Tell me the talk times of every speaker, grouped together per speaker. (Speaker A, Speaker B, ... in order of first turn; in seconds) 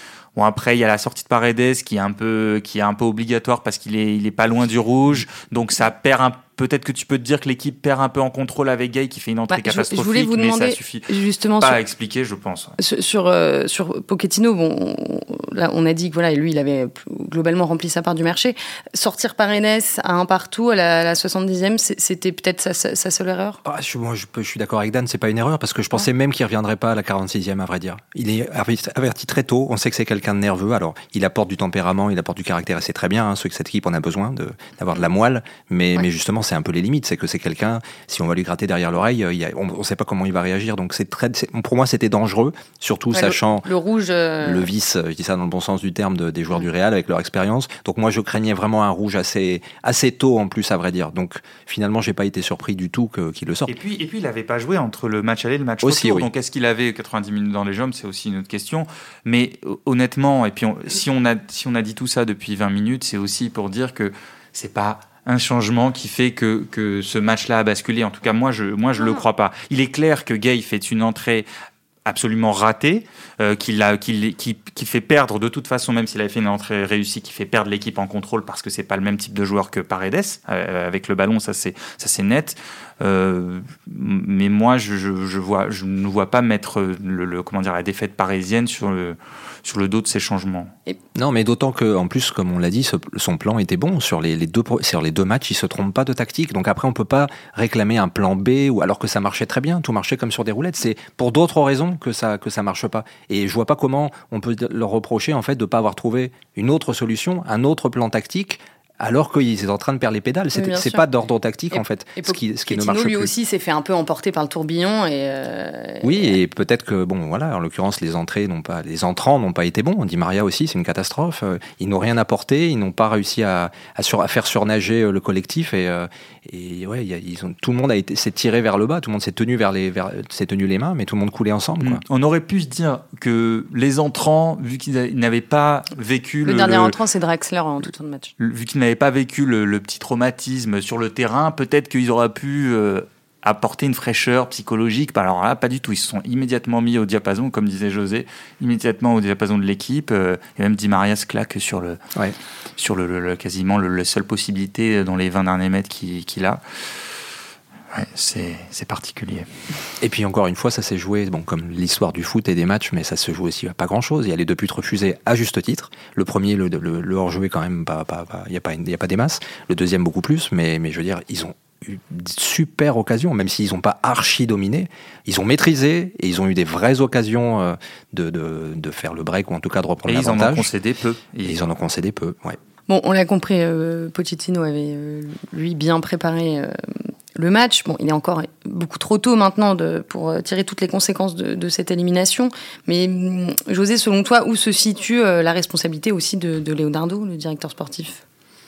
Speaker A: 0.4-11.1, 11.6-12.8, 53.7-71.5, 72.1-90.7, 131.8-136.9, 138.4-152.0, 152.8-156.6, 157.9-159.5, 180.1-181.7
Speaker B: 9.5-11.8, 12.8-23.6, 43.1-44.7, 110.5-111.1, 111.7-116.3, 136.4-138.3, 182.9-186.8, 187.3-198.2
Speaker C: 23.6-43.7, 44.4-53.7, 55.8-56.3, 91.2-113.3, 116.0-132.0, 160.0-180.7, 181.4-182.6